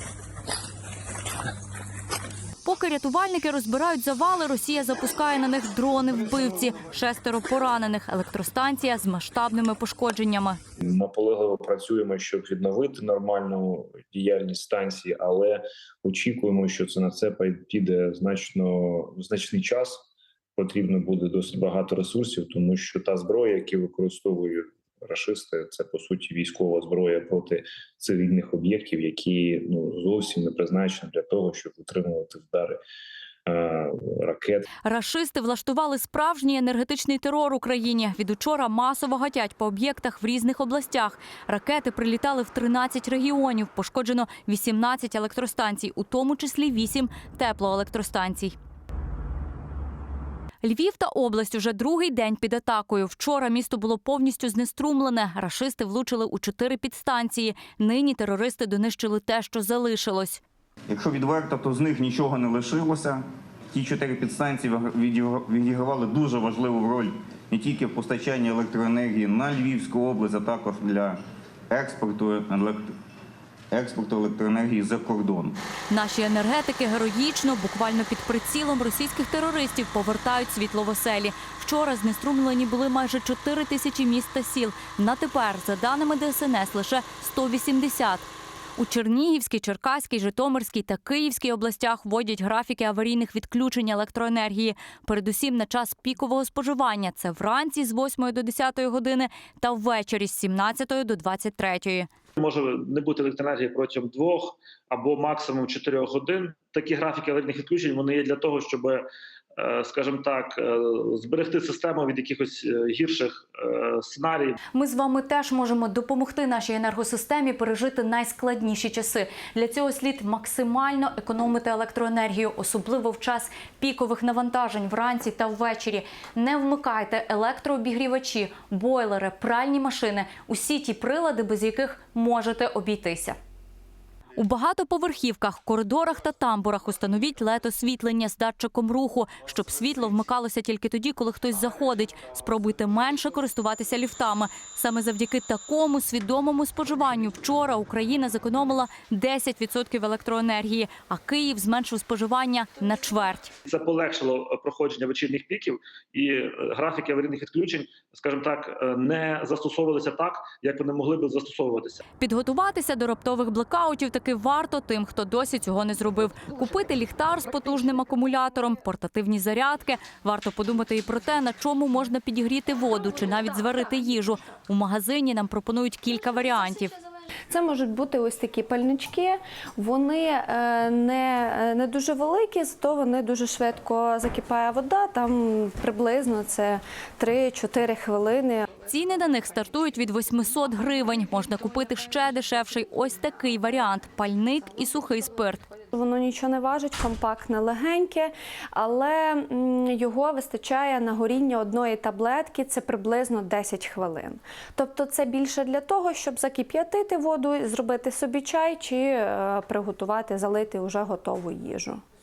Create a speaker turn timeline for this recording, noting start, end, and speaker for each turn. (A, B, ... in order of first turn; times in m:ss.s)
0:02.6-0:10.6 A
0:10.8-0:32.8 B
0:33.4-0:34.6 B
0:34.8-0:48.6 A
0:50.6-1:00.4 A
1:00.9-1:11.2 C
1:11.7-1:12.9 C
1:13.7-1:15.6 C
1:15.9-1:42.1 A
1:42.4-1:54.6 D
1:54.7-2:13.4 A
2:14.4-2:33.5 A
2:33.6-2:42.0 D
2:42.2-2:56.9 A
2:57.5-3:08.6 E
3:08.9-3:15.6 A
3:15.9-3:32.0 E